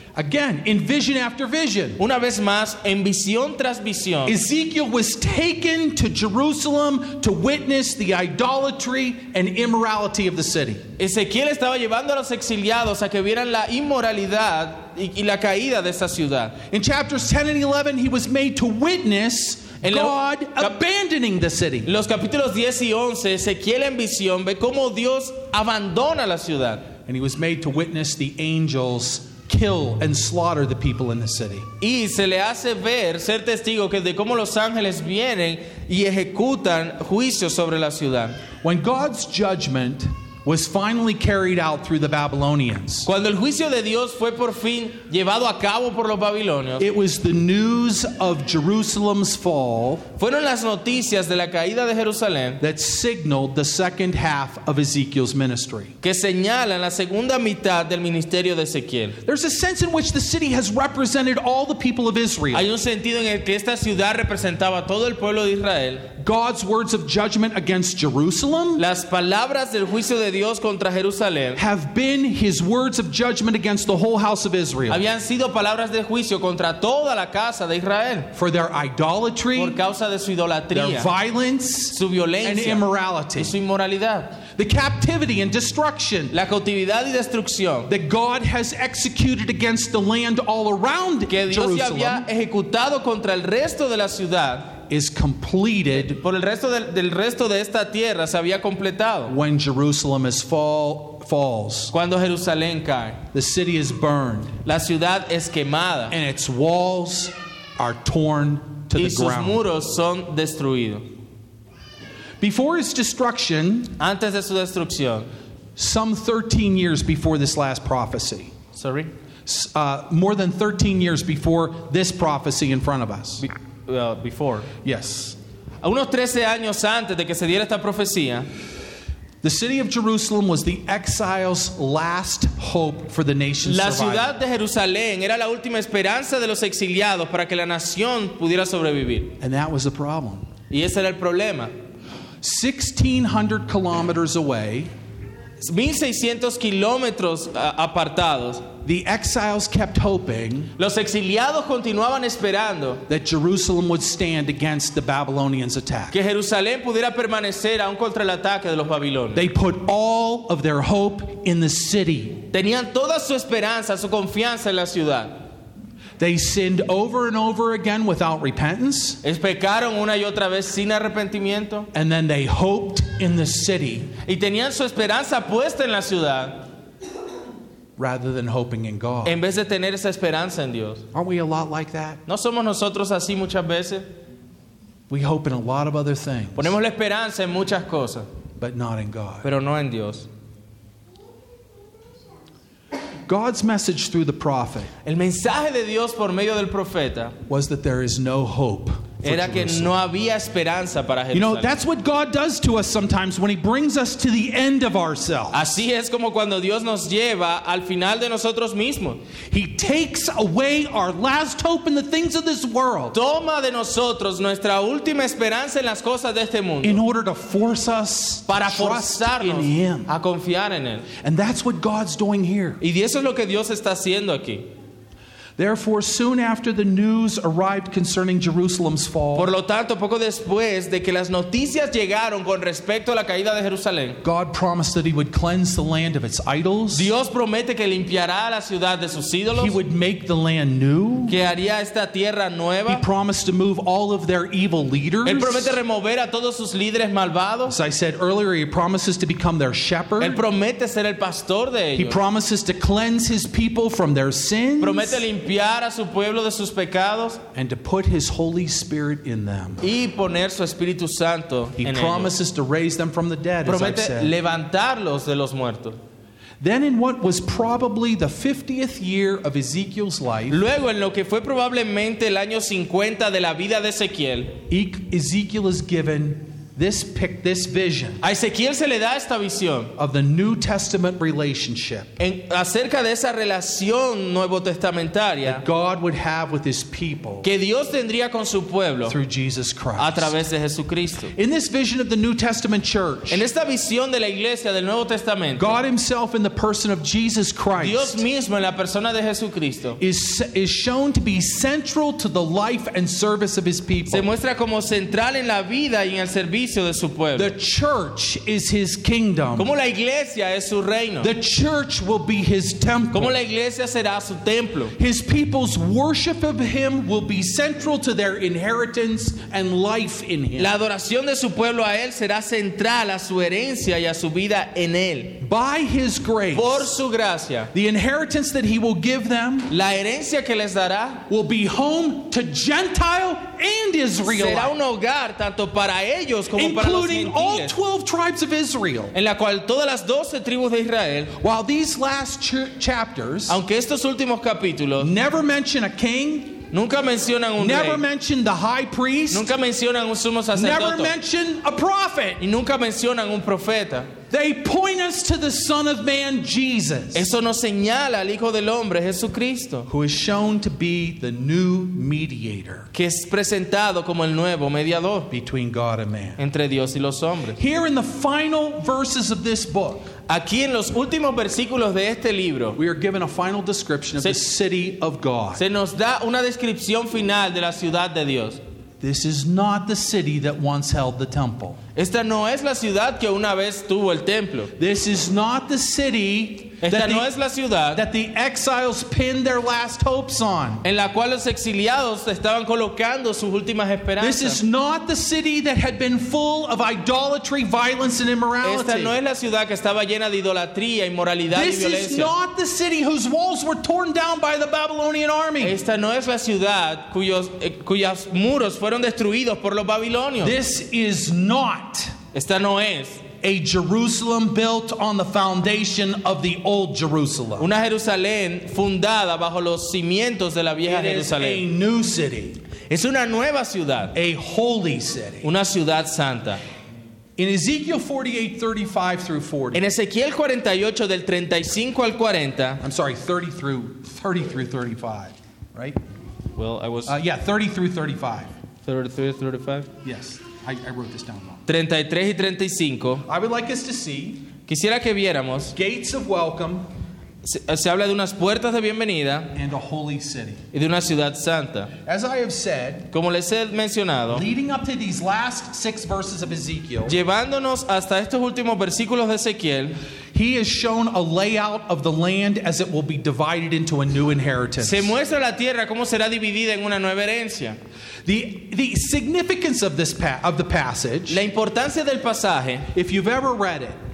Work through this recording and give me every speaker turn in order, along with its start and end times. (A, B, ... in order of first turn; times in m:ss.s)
0:00.2-0:02.0 A
0:02.0-0:04.4 B
0:04.2-0:10.8 A
0:11.0-0:16.6 B
0:16.7-0:21.9 A
0:19.8-0:20.7 B
0:21.8-0:26.9 B
0:27.0-0:31.7 A
0:31.8-0:38.4 B
0:38.6-0:43.1 A
0:43.0-0:46.8 B
0:46.8-0:50.1 A
0:50.2-0:52.6 B
0:52.6-0:56.0 A
0:56.0-0:59.2 B
0:59.2-1:02.7 A
1:02.5-1:06.1 B
1:06.2-1:08.8 A
1:08.8-1:11.6 B
1:11.6-1:15.0 A
1:14.9-1:18.3 B
1:18.3-1:19.8 A
1:19.5-1:21.1 B
1:20.7-1:23.5 A
1:21.9-1:22.8 B
1:23.4-1:24.4 B
1:24.5-1:26.3 A
1:26.3-1:27.9 B
1:27.9-1:32.2 A
1:31.3-1:34.8 B
1:34.9-1:36.2 A
1:35.9-1:39.3 B
1:39.3-1:41.9 A
1:41.9-1:43.2 B
1:43.3-1:44.6 A
1:44.6-1:46.1 B
1:46.1-1:49.6 A
1:48.9-1:51.1 B
1:52.4-1:53.9 A
1:54.0-1:55.3 B
1:55.8-1:58.5 A
1:58.7-1:59.1 B
1:59.4-2:03.4 A
2:03.4-2:04.7 B
2:04.8-2:05.4 A
2:05.8-2:08.5 B
2:09.4-2:14.3 A
2:13.6-2:19.3 B
2:19.4-2:20.5 A
2:20.7-2:21.7 B
2:22.4-2:24.9 A
2:25.6-2:28.7 B
2:28.8-2:30.7 A
2:30.8-2:33.0 B
2:33.1-2:36.2 A
2:36.1-2:39.4 B
2:39.3-2:42.4 A
2:42.5-2:45.4 B
2:46.2-2:49.2 A
2:49.2-2:51.9 B
2:51.9-2:54.1 A
2:54.2-2:56.6 B
2:58.0-2:59.4 A
2:59.2-3:01.0 B
3:01.1-3:02.2 A
3:02.3-3:04.1 B
3:05.1-3:06.7 A
3:06.6-3:08.3 B
3:08.6-3:09.5 A
3:09.4-3:10.3 B
3:13.3-3:14.9 A
3:15.0-3:17.3 B
3:17.5-3:20.0 A
3:19.2-3:21.8 B
3:21.3-3:25.7 A
3:25.5-3:29.2 B
3:29.5-3:33.2 A
3:33.1-3:37.0 B
3:36.8-3:40.1 A
3:38.5-3:41.1 B
3:41.2-3:42.8 A
3:42.8-3:44.7 B
3:45.6-3:49.5 A
3:49.3-3:54.2 B
3:54.2-3:57.1 A
3:56.9-3:59.8 B
3:59.5-4:01.4 A
4:01.3-4:03.0 B
4:02.9-4:05.8 A
4:05.2-4:07.8 B
4:07.7-4:10.4 A
4:10.2-4:12.2 B
4:12.0-4:15.2 A
4:14.8-4:17.4 B
4:17.5-4:19.8 A
4:19.8-4:22.3 B
4:21.8-4:24.3 A
4:23.6-4:26.0 B
4:26.6-4:30.6 A
4:30.5-4:34.6 B
4:34.7-4:38.2 A
4:38.2-4:39.9 B
4:40.0-4:42.2 A
4:42.2-4:45.6 B
4:45.4-4:47.5 A
4:47.4-4:49.2 B
4:49.1-4:50.3 A
4:50.0-4:51.3 B
4:51.3-4:53.4 A
4:53.3-4:55.8 B
4:55.6-4:58.2 A
4:57.8-5:00.0 B
5:00.0-5:04.3 A
5:04.1-5:07.5 B
5:07.3-5:09.7 A
5:09.6-5:11.3 B
5:11.2-5:13.3 A
5:13.1-5:14.9 B
5:15.0-5:20.7 A
5:20.6-5:25.4 B
5:25.4-5:26.9 A
5:26.5-5:27.7 B
5:27.7-5:29.7 A
5:29.7-5:31.2 B
5:31.3-5:34.7 A
5:34.2-5:37.7 B
5:36.5-5:39.1 A
5:39.1-5:41.3 B
5:41.4-5:43.6 A
5:43.5-5:45.1 B
5:45.0-5:46.6 A
5:46.7-5:48.0 B
5:47.6-5:49.5 A
5:49.3-5:51.1 B
5:50.5-5:52.4 A
5:52.4-5:54.1 B
5:54.3-5:57.3 A
5:57.1-5:59.9 B
5:59.9-6:02.9 A
6:02.9-6:05.3 B
6:05.3-6:06.4 A
6:06.4-6:07.6 B
6:07.6-6:10.1 A
6:10.3-6:12.8 B
6:12.8-6:15.6 A
6:15.6-6:18.6 B
6:19.0-6:21.8 A
6:21.9-6:24.7 B
6:24.8-6:27.3 A
6:26.8-6:28.0 B
6:27.9-6:30.8 A
6:30.8-6:34.6 B
6:34.2-6:39.1 A
6:38.6-6:42.3 B
6:41.5-6:45.8 A
6:45.6-6:50.6 B
6:50.4-6:52.1 A
6:52.3-6:53.2 B
6:53.4-6:57.7 A
6:57.6-7:01.6 B
7:00.8-7:02.6 A
7:02.9-7:04.1 B
7:04.1-7:05.5 A
7:05.4-7:06.6 B
7:07.4-7:09.8 A
7:09.7-7:12.8 B
7:12.8-7:16.0 A
7:16.6-7:17.2 B
7:17.0-7:18.5 A
7:18.8-7:19.9 B
7:20.0-7:21.6 A
7:21.7-7:23.2 B
7:23.2-7:24.5 A
7:24.6-7:25.7 B
7:25.7-7:26.8 A
7:27.4-7:29.5 B
7:29.5-7:30.6 A
7:30.7-7:31.9 B
7:32.0-7:33.1 A
7:33.1-7:34.4 B
7:34.3-7:37.2 A
7:37.0-7:40.0 B
7:40.3-7:45.1 A
7:44.8-7:47.8 B
7:48.2-7:51.4 A
7:51.3-7:52.9 B
7:52.9-7:54.0 A